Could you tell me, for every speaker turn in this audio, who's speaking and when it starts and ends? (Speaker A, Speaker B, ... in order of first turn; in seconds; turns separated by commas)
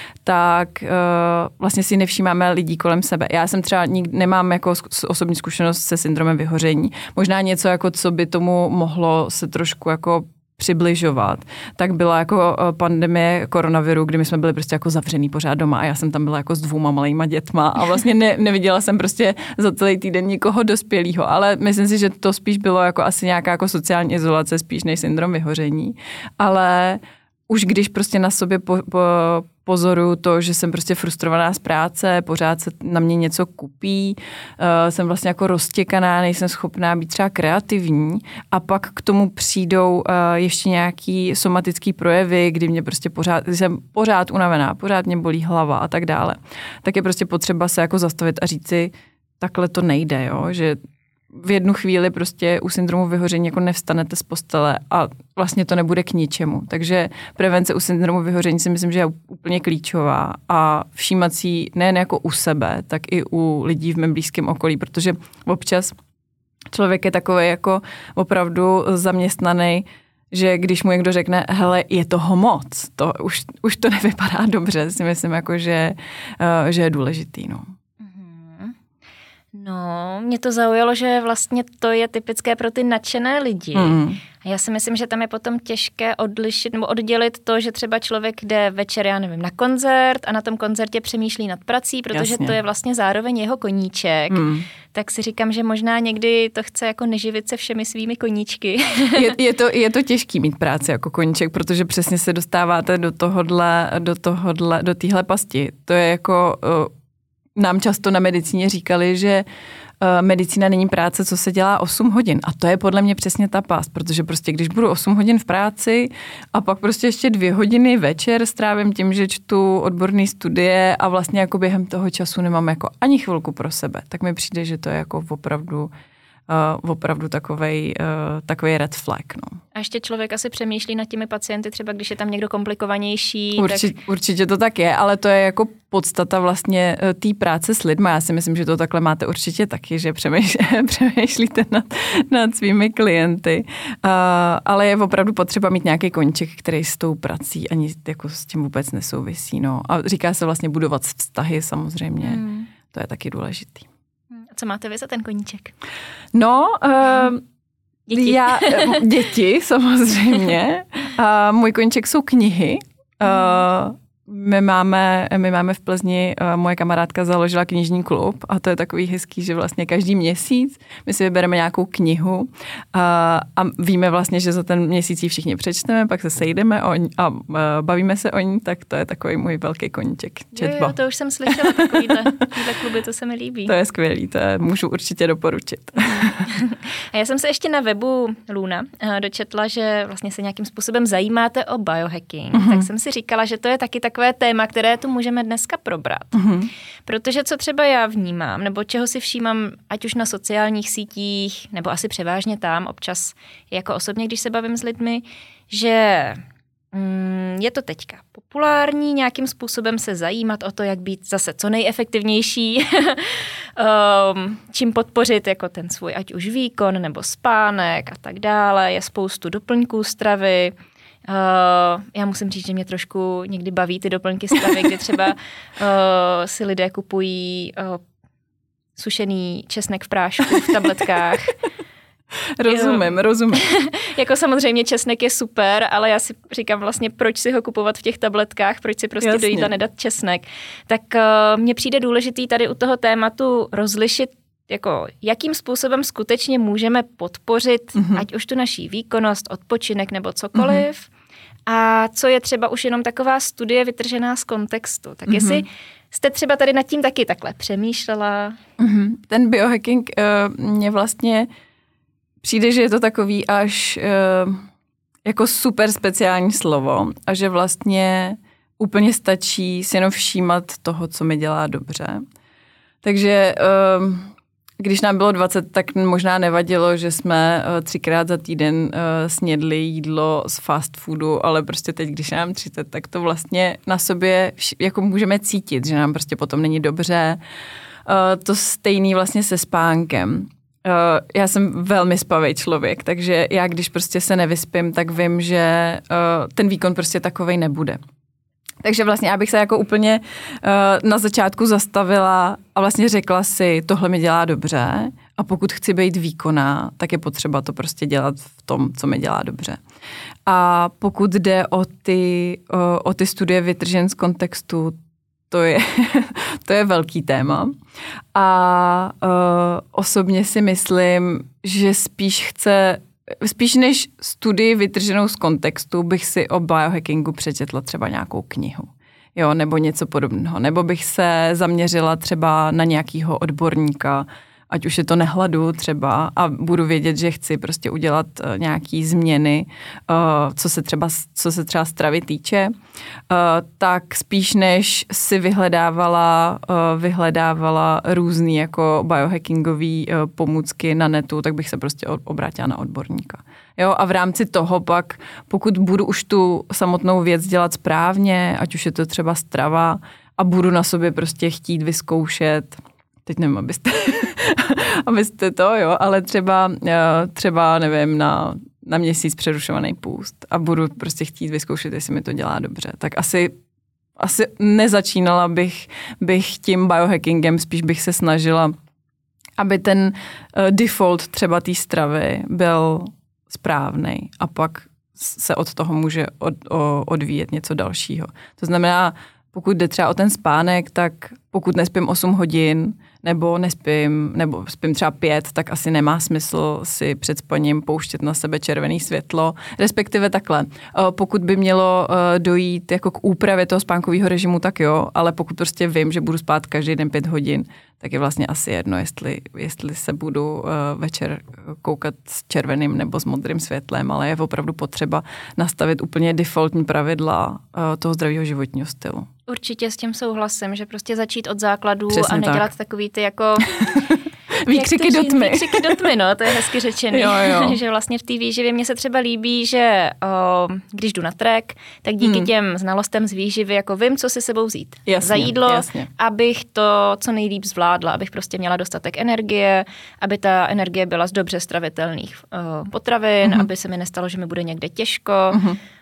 Speaker A: 0.2-50.8, Speaker A: 51.3-65.9, Speaker A: 66.7-77.7, Speaker B: 78.0-78.8, Speaker B: 79.5-99.3, Speaker A: 83.7-84.2, Speaker A: 92.1-92.5, Speaker A: 94.3-94.7, Speaker A: 99.1-106.9, Speaker A: 107.5-109.4, Speaker A: 110.0-125.9, Speaker A: 126.5-129.6, Speaker B: 129.7-133.9, Speaker A: 133.6-153.9, Speaker B: 152.2-152.7, Speaker B: 154.3-155.7, Speaker A: 156.3-157.4, Speaker B: 158.1-159.0, Speaker A: 158.1-182.4, Speaker B: 180.5-183.7, Speaker A: 183.7-186.6, Speaker B: 186.5-196.4, Speaker A: 192.5-192.9, Speaker A: 196.3-196.7, Speaker B: 197.1-206.4, Speaker B: 206.9-220.7, Speaker B: 221.2-228.0, Speaker B: 229.0-231.6, Speaker A: 232.6-233.6, Speaker B: 232.7-251.1, Speaker A: 239.2-239.7, Speaker A: 247.9-248.2, Speaker A: 250.6-250.8, Speaker B: 251.7-258.6, Speaker A: 255.3-255.6, Speaker A: 258.8-261.5, Speaker A: 262.4-264.6, Speaker A: 265.2-272.2, Speaker A: 273.0-287.4, Speaker A: 288.1-298.0, Speaker A: 298.8-309.8, Speaker A: 310.4-315.0, Speaker A: 315.5-317.7, Speaker A: 318.3-342.7, Speaker A: 343.3-373.5, Speaker A: 374.2-378.7, Speaker A: 379.6-419.3, Speaker B: 419.5-424.0, Speaker A: 422.1-422.7, Speaker A: 423.8-426.1, Speaker B: 424.6-445.6, Speaker A: 427.1-427.8, Speaker A: 432.2-432.5, Speaker A: 435.1-436.1, Speaker A: 445.5-445.8